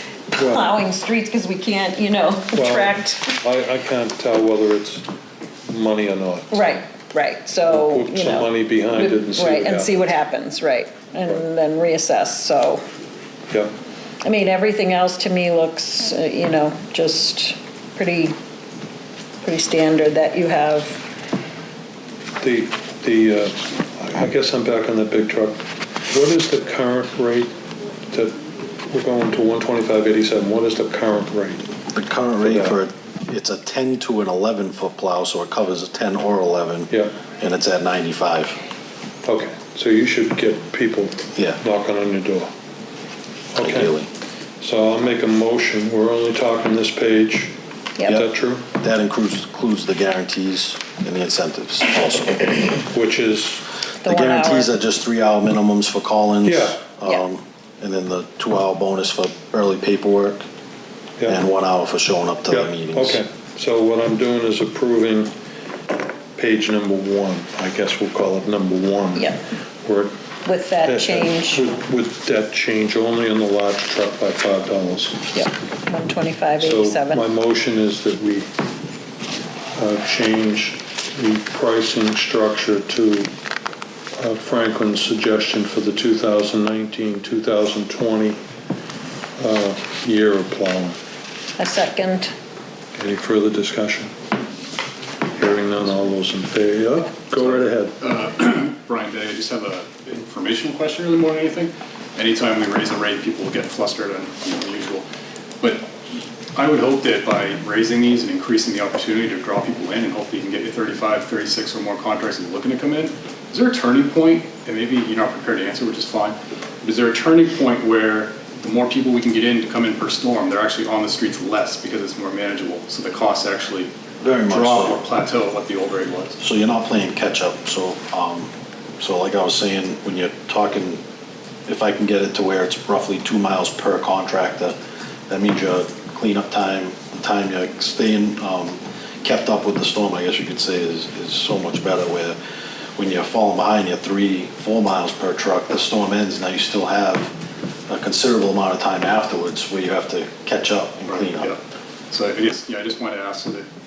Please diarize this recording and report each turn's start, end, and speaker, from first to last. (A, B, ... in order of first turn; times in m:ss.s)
0:00.3-0:03.4 A
0:00.4-0:00.7 B
0:02.5-0:05.1 B
0:05.7-0:06.7 B
0:06.5-0:12.8 A
0:07.6-0:10.0 B
0:14.2-0:18.4 A
0:19.4-0:21.0 A
0:22.4-0:27.6 B
0:28.1-0:31.7 B
0:31.9-0:38.6 C
0:32.4-0:32.8 B
0:36.9-0:37.2 B
0:39.2-0:42.5 B
0:41.4-0:41.6 C
0:43.5-0:43.9 B
0:43.6-0:44.1 C
0:44.6-0:47.6 B
0:48.1-0:48.7 B
0:48.8-0:52.8 C
0:52.9-0:53.6 B
0:54.0-0:54.7 A
0:54.0-1:00.4 C
0:56.4-0:56.9 B
1:01.3-1:03.2 C
1:02.5-1:05.3 B
1:06.4-1:10.2 B
1:10.4-1:11.6 A
1:10.8-1:15.2 B
1:15.3-1:17.2 A
1:16.6-1:18.5 B
1:19.8-1:23.3 B
1:24.2-1:28.4 B
1:29.4-1:31.0 B
1:31.6-1:32.3 A
1:33.0-1:34.1 B
1:35.4-1:38.0 B
1:37.4-1:45.1 D
1:45.6-1:45.9 D
1:46.6-2:03.9 D
2:04.2-2:05.0 C
2:04.5-2:06.4 D
2:06.4-2:11.0 C
2:11.7-2:14.8 C
2:15.3-2:22.4 C
2:23.0-2:27.3 C
2:27.9-2:31.5 C
2:31.1-2:33.7 D